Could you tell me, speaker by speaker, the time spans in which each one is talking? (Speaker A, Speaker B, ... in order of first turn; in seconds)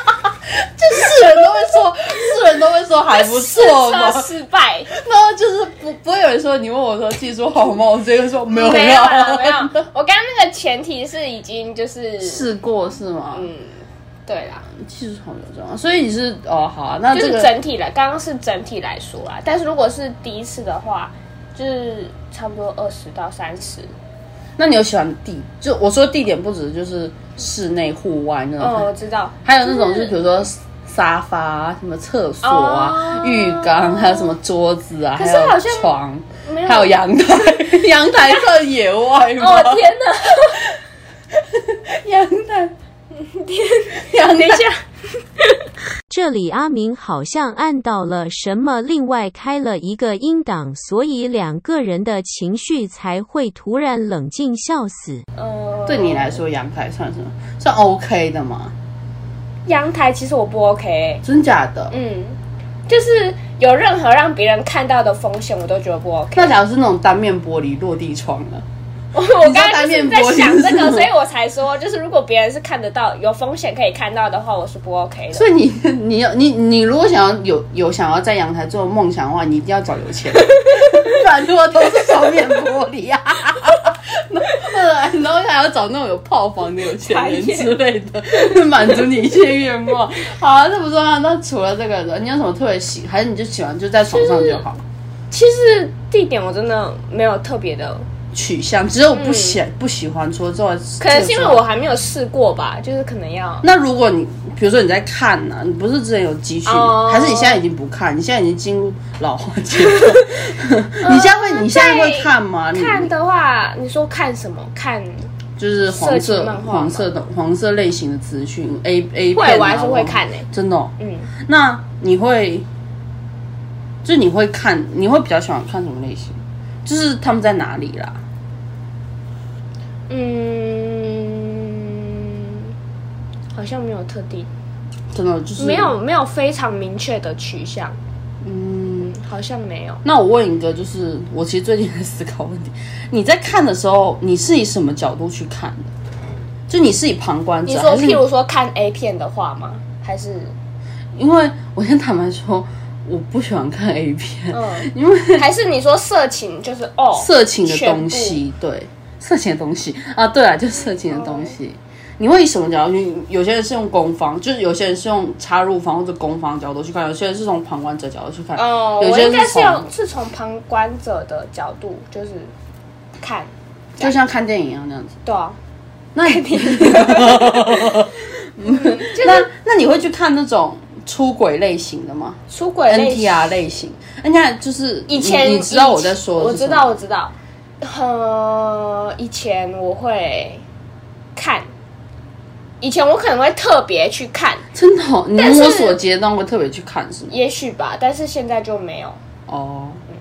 Speaker A: 0.8-4.3, 4.9-9.8, 12.2-13.5, 14.7-17.5, 24.6-28.9, 29.4-40.6, 41.4-42.7, 44.0-44.6, 55.9-58.7, 61.2-61.9, 66.3-68.6, 69.4-71.1, 75.3-94.8, 98.3-101.6, 103.6-113.1, 115.6-122.7, 124.0-128.2, 135.1-135.9, 138.4-139.2, 140.0-145.9, 146.7-148.2, 151.1-155.4, 157.1-169.9, 174.0-175.2, 176.1-186.9, 194.7-197.3, 199.5-200.0
Speaker B: 3.1-4.9, 8.5-12.5, 13.3-13.7, 14.3-14.7, 17.1-23.9, 28.6-30.1, 32.4-34.3, 35.1-35.9, 36.4-37.7, 39.4-40.7, 43.1-44.8, 55.4-56.4, 59.6-61.2, 61.9-62.4, 62.9-66.5, 69.1-75.5, 80.5-81.1, 86.8-87.8, 88.3-89.0, 94.0-94.6, 95.3-98.0, 99.1-99.6, 101.0-103.6, 106.7-107.6, 109.8-110.3, 111.0-115.3, 115.9-117.1, 119.3-120.5, 121.0-121.3, 130.1-132.7, 133.5-134.5, 135.6-138.0, 139.0-140.0, 147.7-150.5, 154.5-158.4, 161.1-161.5, 168.6-172.5, 173.2-174.1, 175.2-175.6, 176.2-178.1, 178.6-179.5, 182.5-183.6, 185.1-190.6, 191.3-191.7, 192.8-194.6, 195.3-196.0, 197.3-199.2
Speaker C: 46.1-55.2